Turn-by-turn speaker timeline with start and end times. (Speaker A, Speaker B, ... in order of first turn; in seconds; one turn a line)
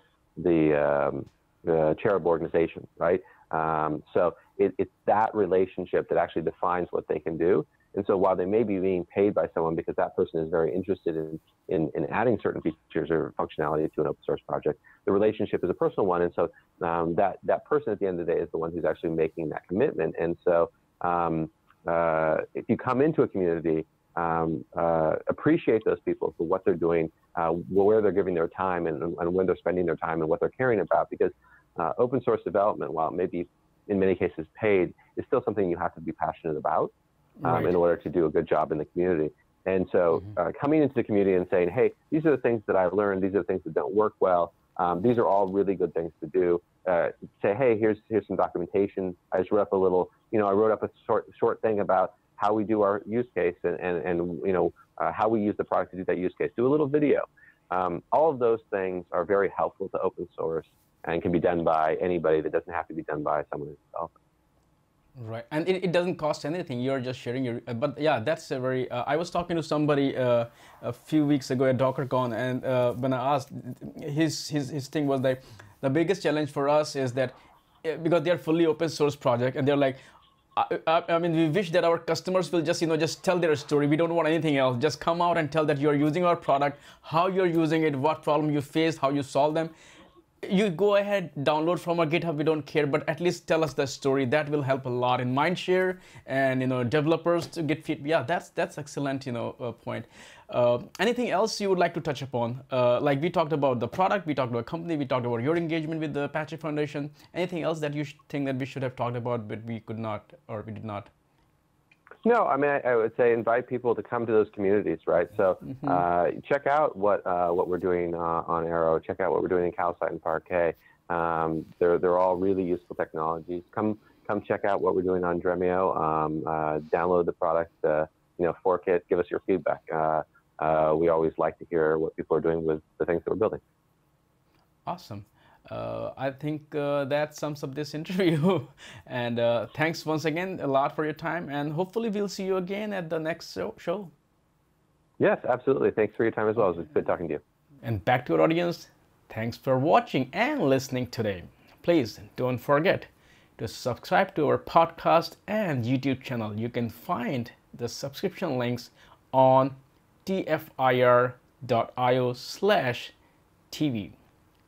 Speaker A: 0.3-36.9
Speaker B: 37.4-37.8
Speaker A: 37.4-64.1
Speaker B: 65.2-80.0
Speaker B: 80.5-89.7
Speaker B: 90.4-111.1
Speaker A: 112.2-133.6
Speaker B: 115.6-116.0
Speaker B: 134.8-144.1
Speaker A: 145.2-147.4
Speaker B: 147.8-163.1
Speaker B: 163.7-164.2